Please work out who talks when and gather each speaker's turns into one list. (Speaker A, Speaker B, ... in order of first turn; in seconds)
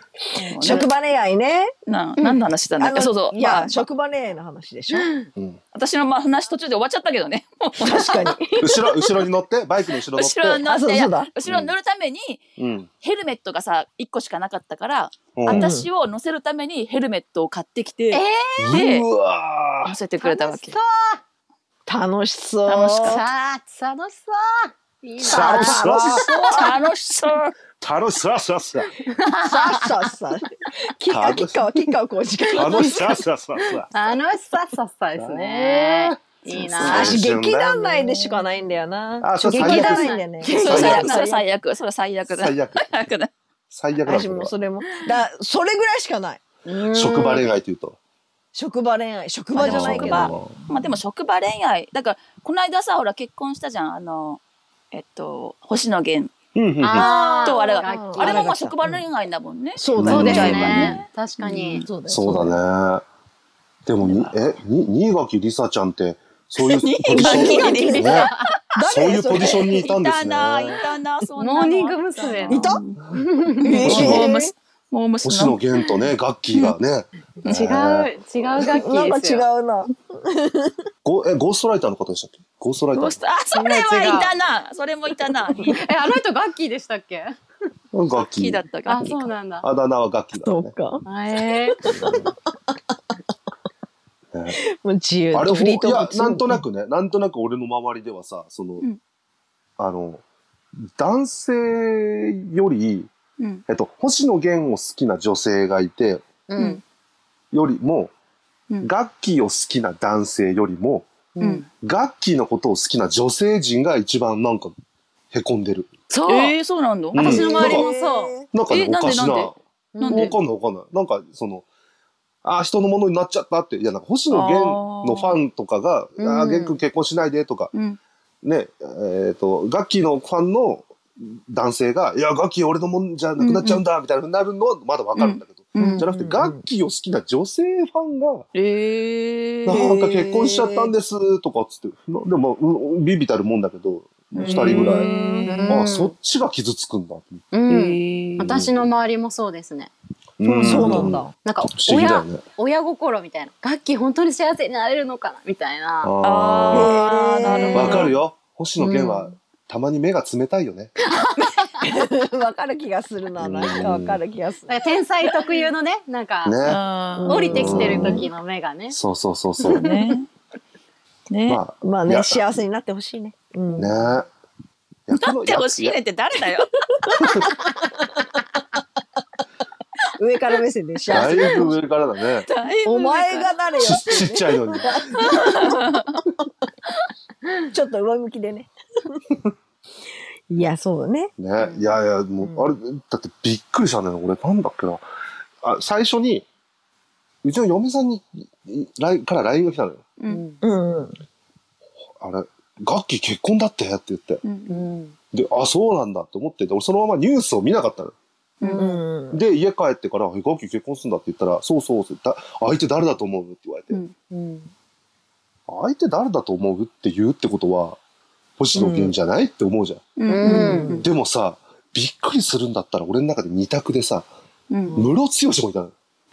Speaker A: 0.3-0.9, 1.9-3.9, 5.7-8.4, 10.1-12.4, 13.0-19.1, 19.9-20.8, 22.7-23.2, 25.5-27.5, 36.5-37.1, 40.5-43.3, 49.5-54.4, 54.9-56.3, 57.4-61.0, 66.6-68.5, 69.3-73.0, 73.6-76.8, 82.9-86.1, 88.1-89.3, 116.2-117.5, 118.7-120.3, 124.3-125.4, 127.7-128.0, 133.4-133.8, 135.1-136.0, 138.5-140.6, 144.3-145.6, 147.7-148.5, 156.2-158.2, 161.3-161.7, 166.6-167.6, 169.7-170.3, 171.3-171.6, 175.1-177.2, 181.1-181.7, 182.4-183.8, 185.2-186.1, 191.6-191.9, 204.4-204.8, 208.6-209.0, 220.2-221.0, 224.7-225.0
Speaker B: 0.6-1.7, 2.8-5.1, 7.8-8.8, 10.6-11.3, 15.5-15.9, 21.9-23.2, 25.2-26.8, 29.4-33.0, 36.8-41.5, 44.0-47.4, 48.5-50.9, 57.0-59.0, 59.8-62.5, 67.1-68.2, 68.7-69.8, 72.5-72.8, 73.6-74.5, 78.7-80.7, 90.4-91.0, 91.8-92.3, 94.8-96.6, 117.2-118.5, 135.8-136.6, 144.4-145.8, 150.4-151.3, 156.7-158.1, 161.8-164.7, 167.2-168.2, 171.8-174.1, 180.2-181.7, 182.8-186.0, 187.7-188.7, 190.5-191.3, 192.4-192.7, 200.6-201.1, 208.8-209.4, 218.7-219.1, 220.4-221.1
Speaker C: 5.0-5.2, 18.1-18.8, 20.2-21.2, 22.8-25.9, 29.0-30.1, 32.5-37.2, 39.5-41.2, 46.6-47.5, 56.8-58.5, 60.0-62.5, 67.4-68.5, 71.4-73.8, 77.5-79.5, 83.5-84.3, 85.6-87.3, 88.8-89.7, 91.0-91.8, 106.5-106.8, 111.3-111.7, 116.1-116.5, 117.1-118.3, 119.9-120.4, 126.2-126.8, 145.4-146.2, 147.5-149.9, 150.7-156.1, 158.8-159.3, 161.2-161.7, 164.7-166.6, 167.3-169.0, 169.6-170.0, 200.3-200.6, 204.7-205.2, 214.3-214.7, 220.3-221.1
Speaker D: 8.6-10.6, 11.4-11.8, 12.6-12.9, 15.3-15.7, 18.6-20.0, 25.2-26.3, 27.8-28.9, 31.1-31.7, 32.5-33.9, 35.2-38.0, 39.2-41.1, 42.3-42.9, 43.7-44.5, 46.9-48.0, 49.6-50.5, 56.5-57.1, 60.0-61.0, 62.1-63.0, 63.9-70.8, 73.8-74.3, 75.2-78.1, 81.0-83.2, 87.9-88.6, 89.6-90.7, 91.9-92.3, 95.3-98.9, 99.8-100.2, 101.0-103.1, 103.7-106.2, 107.5-108.1, 108.8-111.1, 111.8-114.7, 115.3-115.9, 117.1-117.9, 118.5-119.5, 120.1-121.7, 122.4-127.7, 128.4-138.4, 139.7-145.1, 145.7-147.4, 148.4-148.8, 150.4-152.4, 156.0-157.0, 157.7-160.9, 163.4-164.2, 166.4-166.8, 167.5-168.3, 168.9-169.8, 171.5-172.4, 173.8-174.3, 175.1-176.0, 181.1-182.5, 183.8-185.3, 191.4-195.0, 195.6-196.4, 197.4-200.1, 202.2-204.4, 205.3-208.1, 209.3-214.0, 215.7-218.0, 218.6-220.2, 221.0-224.3, 224.9-225.9